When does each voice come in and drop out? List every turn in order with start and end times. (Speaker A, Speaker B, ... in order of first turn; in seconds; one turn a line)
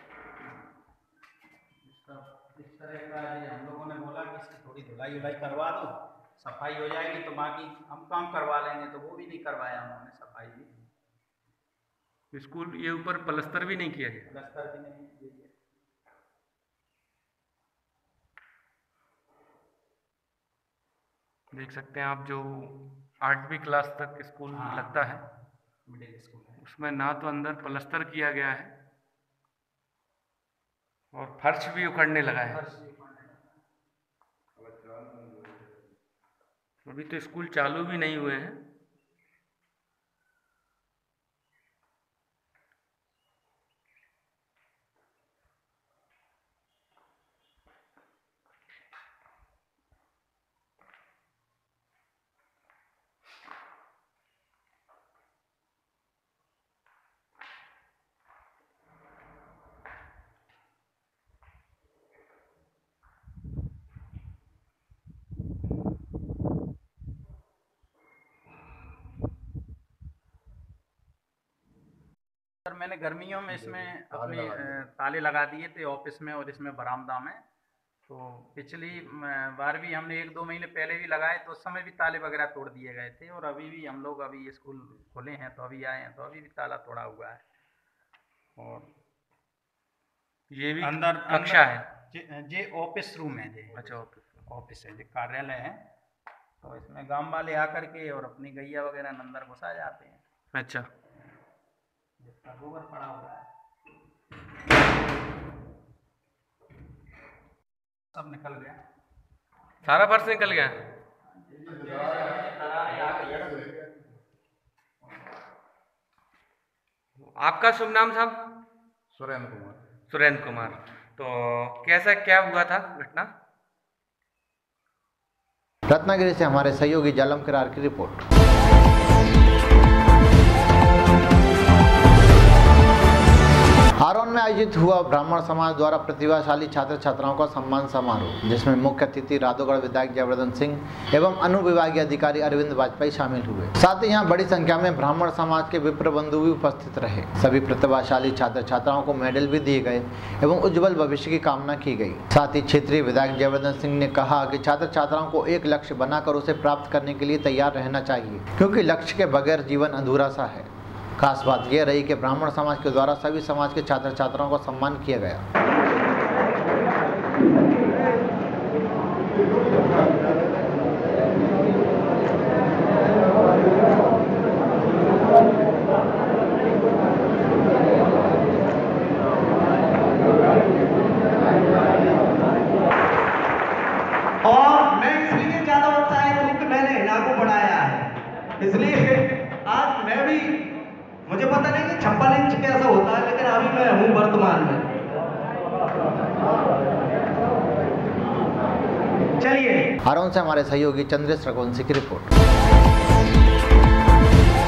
Speaker A: 1.8-10.7
Speaker B: 12.3-14.3
Speaker A: 14.2-15.5
Speaker B: 21.5-25.2
Speaker A: 24.5-25.1
Speaker A: 25.9-26.6
Speaker B: 26.6-28.7
Speaker B: 31.1-32.6
Speaker A: 32.4-33.3
Speaker C: 34.6-35.7
Speaker B: 36.9-38.6
Speaker A: 72.7-77.4
Speaker C: 73.5-74.8
Speaker A: 78.1-87.4
Speaker A: 88.6-88.9
Speaker B: 90.5-91.9
Speaker A: 90.8-95.8
Speaker B: 93.7-94.2
Speaker A: 96.6-100.2
Speaker B: 100.5-100.9
Speaker A: 102.2-103.5
Speaker A: 108.1-108.8
Speaker B: 109.8-110.8
Speaker C: 111.5-114.1
Speaker A: 111.6-113.6
Speaker B: 117.4-118.4
Speaker C: 119.1-119.8
Speaker B: 120.1-123.3
Speaker D: 125.9-128.2
Speaker D: 134.0-165.4
Speaker E: 184.4-188.0
Speaker E: 188.6-190.4
Speaker E: 191.3-194.8
Speaker E: 199.4-199.8
Speaker D: 200.1-202.3